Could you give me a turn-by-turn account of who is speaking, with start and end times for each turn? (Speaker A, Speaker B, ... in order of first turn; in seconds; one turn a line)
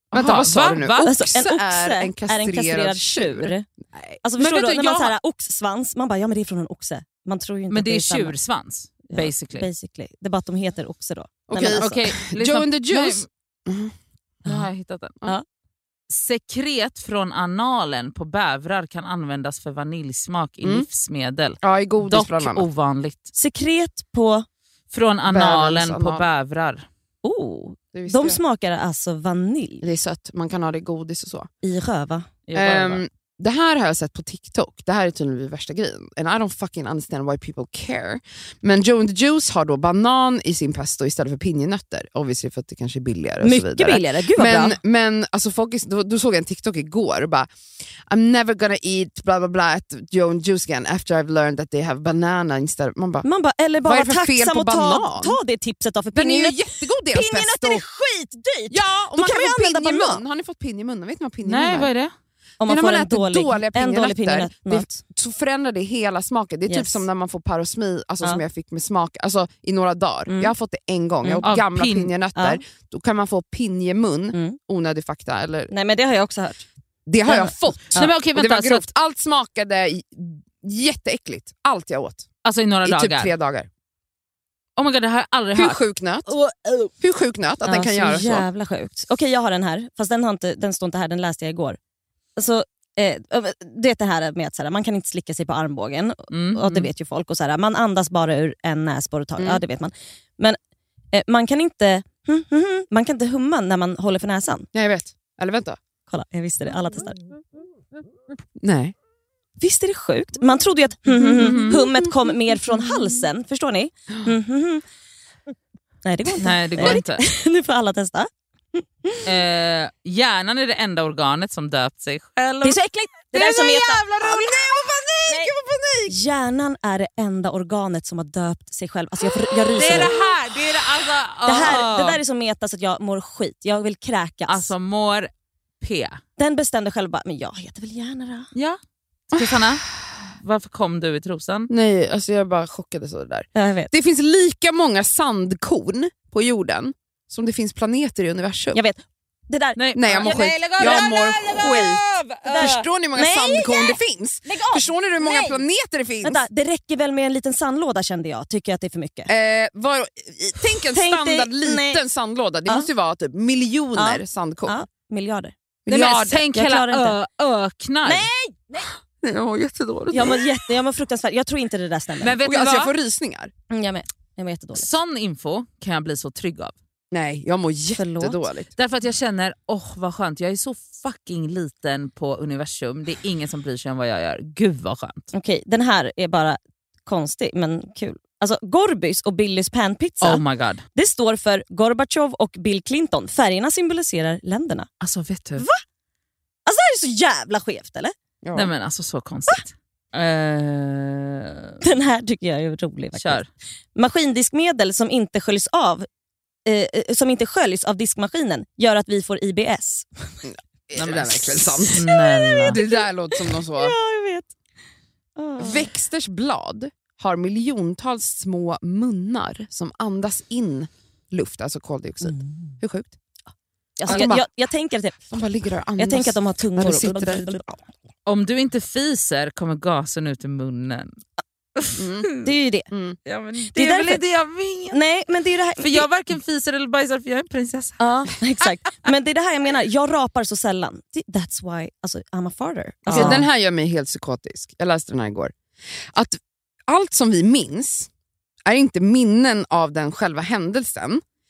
Speaker A: 0.1-1.1
Speaker B: 0.1-4.2
Speaker C: 1.1-3.7
Speaker C: 4.2-8.4
Speaker A: 4.4-5.2
Speaker A: 7.7-9.7
Speaker C: 9.1-12.1
Speaker B: 11.5-13.9
Speaker A: 11.7-13.3
Speaker A: 14.5-15.2
Speaker A: 16.1-23.3
Speaker B: 20.6-20.9
Speaker B: 21.6-22.7
Speaker C: 23.4-24.5
Speaker A: 24.9-26.9
Speaker B: 25.3-26.3
Speaker C: 27.2-29.9
Speaker B: 27.9-28.4
Speaker B: 29.8-31.5
Speaker C: 31.6-32.3
Speaker A: 32.5-33.0
Speaker B: 32.5-47.5
Speaker C: 43.4-44.8
Speaker B: 48.1-53.3
Speaker C: 53.2-60.2
Speaker B: 53.8-55.4
Speaker B: 56.1-57.8
Speaker B: 58.7-61.9
Speaker A: 61.4-62.1
Speaker C: 62.6-65.0
Speaker B: 62.7-75.7
Speaker C: 66.7-67.0
Speaker C: 70.3-70.5
Speaker C: 71.2-71.5
Speaker A: 71.4-72.1
Speaker C: 72.4-72.6
Speaker C: 74.3-74.6
Speaker C: 75.7-76.7
Speaker B: 77.1-82.3
Speaker C: 77.3-78.1
Speaker A: 77.9-78.8
Speaker A: 82.4-83.3
Speaker B: 82.8-83.7
Speaker A: 84.8-86.9
Speaker B: 85.5-86.3
Speaker B: 87.0-88.5
Speaker C: 87.7-91.8
Speaker C: 92.4-100.6
Speaker A: 96.3-96.9
Speaker B: 99.4-99.6
Speaker C: 101.1-104.7
Speaker B: 104.7-105.8
Speaker C: 106.1-107.2
Speaker B: 108.6-108.9
Speaker C: 109.6-114.8
Speaker A: 111.2-111.8
Speaker B: 111.2-113.0
Speaker C: 116.0-119.2
Speaker A: 116.4-117.2
Speaker A: 119.2-122.8
Speaker C: 122.6-124.1
Speaker A: 123.3-124.6
Speaker B: 124.2-126.2
Speaker C: 125.3-125.5
Speaker C: 126.1-130.2
Speaker A: 129.8-132.2
Speaker C: 131.4-134.7
Speaker A: 134.5-135.3
Speaker A: 135.8-136.2
Speaker C: 136.4-138.5
Speaker A: 139.3-141.7
Speaker B: 141.7-148.8
Speaker C: 143.6-143.9
Speaker C: 148.7-151.0
Speaker A: 149.8-152.8
Speaker B: 149.9-156.4
Speaker C: 152.5-155.7
Speaker C: 156.2-159.3
Speaker B: 159.3-164.8
Speaker C: 160.9-162.0
Speaker C: 164.0-165.5
Speaker B: 165.9-166.5
Speaker A: 165.9-168.3
Speaker C: 166.5-167.2
Speaker C: 168.0-168.9
Speaker B: 168.8-170.5
Speaker C: 170.1-172.4
Speaker A: 172.2-172.9
Speaker B: 172.4-173.5
Speaker C: 173.7-174.9
Speaker A: 174.7-176.7
Speaker B: 177.1-178.7
Speaker C: 178.0-178.5
Speaker A: 178.8-185.3
Speaker C: 185.3-190.4
Speaker A: 190.2-190.8
Speaker C: 190.9-194.9
Speaker A: 195.0-195.7
Speaker C: 196.7-198.1
Speaker B: 198.4-198.7
Speaker A: 198.5-201.8
Speaker C: 201.8-206.1
Speaker A: 203.2-203.5
Speaker C: 206.7-210.3
Speaker B: 210.4-212.1
Speaker A: 211.0-212.8
Speaker C: 211.8-214.5
Speaker B: 212.7-214.0
Speaker C: 215.4-215.9
Speaker B: 215.6-223.2
Speaker C: 222.2-222.8
Speaker C: 224.0-225.3
Speaker B: 224.0-224.5
Speaker A: 224.1-224.3
Speaker B: 225.3-227.7
Speaker C: 226.0-227.8
Speaker A: 228.3-231.1
Speaker A: 231.8-232.5
Speaker B: 232.0-232.3
Speaker C: 232.4-232.9
Speaker B: 232.9-233.2
Speaker A: 233.3-235.0
Speaker C: 233.7-234.2
Speaker C: 234.9-236.1
Speaker A: 235.8-238.7
Speaker C: 238.0-243.5
Speaker A: 243.1-243.4
Speaker B: 243.1-245.5
Speaker B: 246.1-248.1
Speaker B: 248.7-251.2